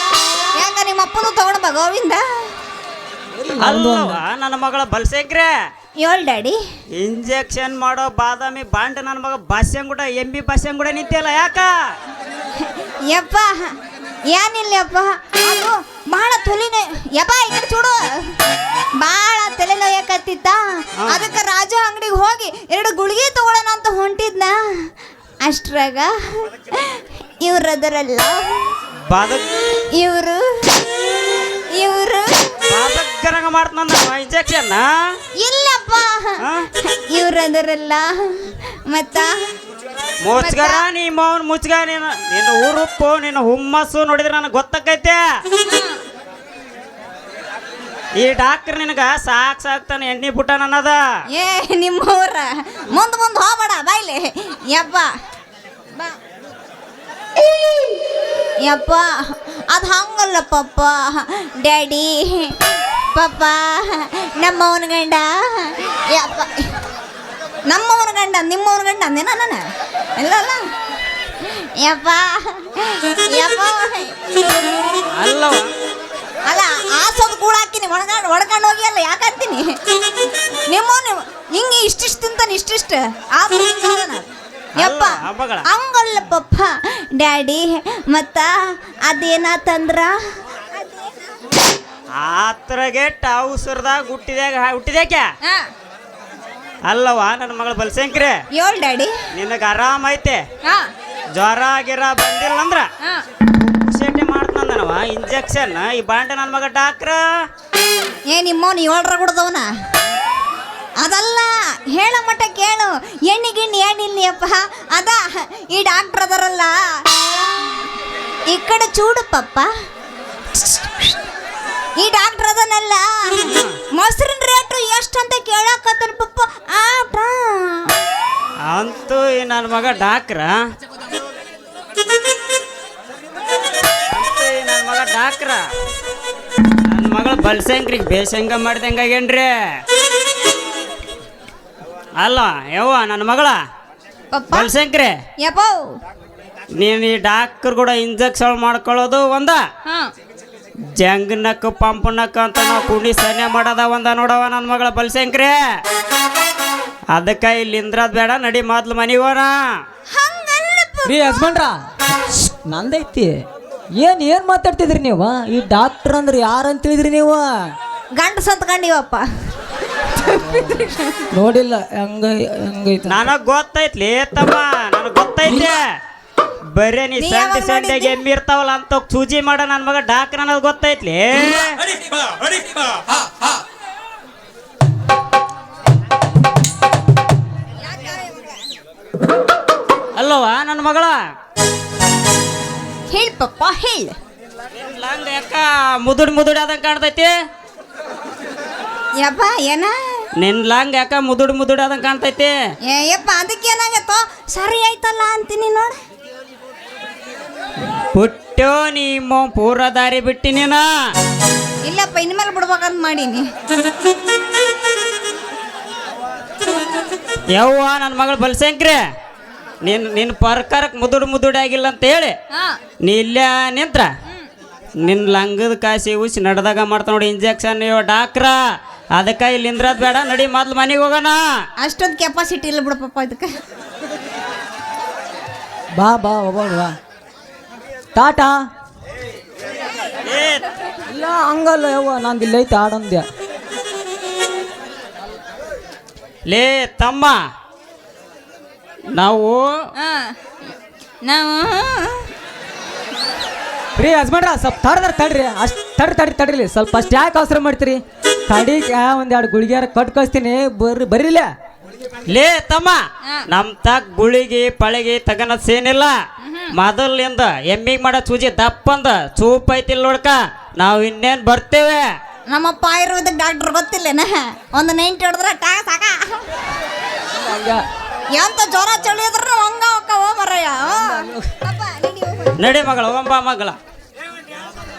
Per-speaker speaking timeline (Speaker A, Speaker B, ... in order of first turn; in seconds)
Speaker A: 0.6-2.2, 6.0-6.6, 12.7-13.7, 14.3-18.4, 19.0-24.9, 25.4-28.7, 29.9-30.9, 31.7-32.3, 35.4-38.3, 38.9-39.3, 40.4-40.8, 45.6-46.0, 51.3-55.1, 58.6-62.6, 63.1-66.7, 67.7-69.6, 70.2-70.6, 71.5-74.2, 76.5-79.8, 80.7-84.3, 84.8-88.5, 89.1-90.2, 90.7-91.2, 98.5-99.1, 108.3-109.7, 111.0-117.0, 118.5-119.7, 120.5-121.2, 122.0-128.0, 144.3-144.7, 145.4-145.9, 160.1-161.6, 168.2-169.2, 170.1-171.3, 177.2-178.2, 187.8-188.6, 193.1-194.2, 199.2-199.9, 202.9-205.9, 211.9-213.4, 222.5-222.8, 231.8-233.5, 250.0-250.4, 251.2-252.3, 266.4-266.7, 272.5-276.5, 278.3-282.7
Speaker B: 3.4-4.2, 161.1-163.4, 164.0-167.4, 170.4-170.8, 171.3-173.2, 236.0-236.9, 238.2-238.6, 241.1-243.3, 254.0-261.5, 277.3-277.8
Speaker C: 3.6-5.5, 7.0-11.7, 21.0-21.3, 29.1-29.5, 32.7-34.9, 36.4-36.7, 40.2-45.2, 48.2-51.0, 75.2-75.7, 84.8-85.7, 92.2-95.3, 96.9-98.4, 99.3-100.4, 101.4-102.9, 103.5-107.2, 123.5-123.7, 128.7-130.5, 134.1-135.6, 136.9-139.5, 142.2-143.6, 144.5-145.2, 146.8-149.6, 151.0-155.6, 157.1-159.6, 173.1-175.8, 176.8-181.8, 190.2-191.2, 194.8-197.3, 200.4-202.5, 208.1-210.9, 217.5-219.0, 219.8-222.3, 223.1-224.1, 225.1-228.6, 229.2-231.4, 240.3-240.7, 246.5-247.4, 249.2-249.7, 262.3-266.1, 266.7-272.1, 282.6-283.8